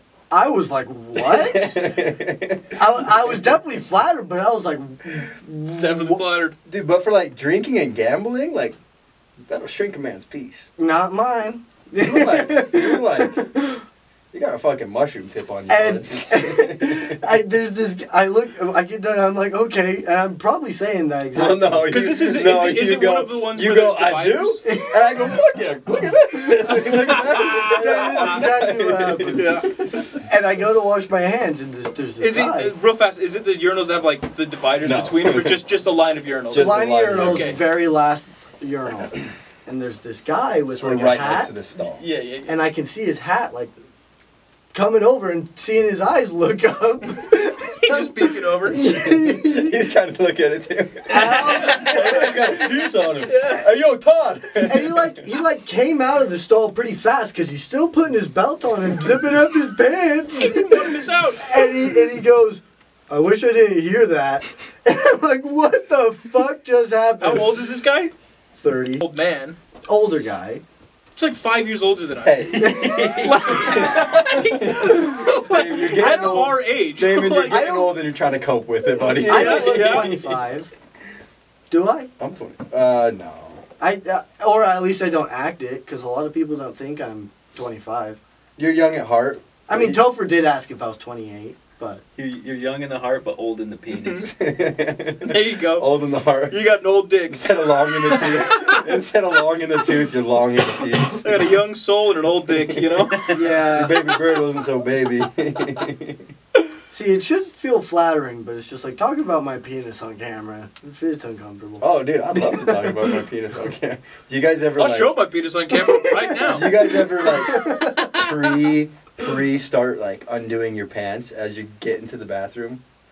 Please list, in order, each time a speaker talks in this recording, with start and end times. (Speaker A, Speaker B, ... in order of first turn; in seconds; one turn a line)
Speaker A: 0.3-2.0
Speaker B: 1.1-3.3
Speaker A: 2.7-6.2
Speaker C: 5.8-6.5
Speaker B: 6.6-8.8
Speaker B: 9.5-10.7
Speaker A: 10.8-13.8
Speaker B: 12.0-13.4
Speaker B: 14.3-17.2
Speaker A: 15.7-22.0
Speaker B: 21.3-29.9
Speaker C: 21.9-24.6
Speaker A: 24.6-25.4
Speaker C: 26.7-28.5
Speaker A: 27.4-29.7
Speaker C: 29.3-29.7
Speaker A: 30.2-32.7
Speaker C: 32.2-37.6
Speaker B: 34.8-35.6
Speaker B: 36.5-37.7
Speaker A: 36.5-41.5
Speaker B: 40.7-42.0
Speaker C: 41.8-42.5
Speaker A: 42.5-43.7
Speaker A: 44.7-49.8
Speaker C: 47.8-48.8
Speaker B: 48.7-55.3
Speaker A: 51.1-52.7
Speaker C: 51.1-52.6
Speaker C: 53.2-53.7
Speaker A: 54.6-67.6
Speaker C: 60.4-61.6
Speaker C: 67.2-68.1
Speaker A: 68.5-69.0
Speaker C: 69.0-69.6
Speaker A: 69.9-70.6
Speaker C: 71.2-77.9
Speaker B: 72.2-80.2
Speaker A: 72.6-73.4
Speaker D: 72.6-73.8
Speaker A: 75.9-76.6
Speaker A: 77.5-78.0
Speaker C: 79.0-80.4
Speaker A: 79.0-80.7
Speaker A: 81.7-82.1
Speaker B: 82.2-83.6
Speaker A: 83.8-88.2
Speaker B: 88.6-90.0
Speaker A: 89.7-92.0
Speaker D: 92.2-94.3
Speaker C: 93.9-94.2
Speaker B: 94.2-96.6
Speaker C: 95.2-95.9
Speaker C: 96.5-98.8
Speaker B: 97.3-101.4
Speaker C: 101.1-103.5
Speaker B: 102.5-106.3
Speaker A: 103.3-104.1
Speaker A: 106.9-113.2
Speaker B: 111.8-115.2
Speaker C: 114.8-116.9
Speaker A: 115.7-118.2
Speaker B: 116.4-122.8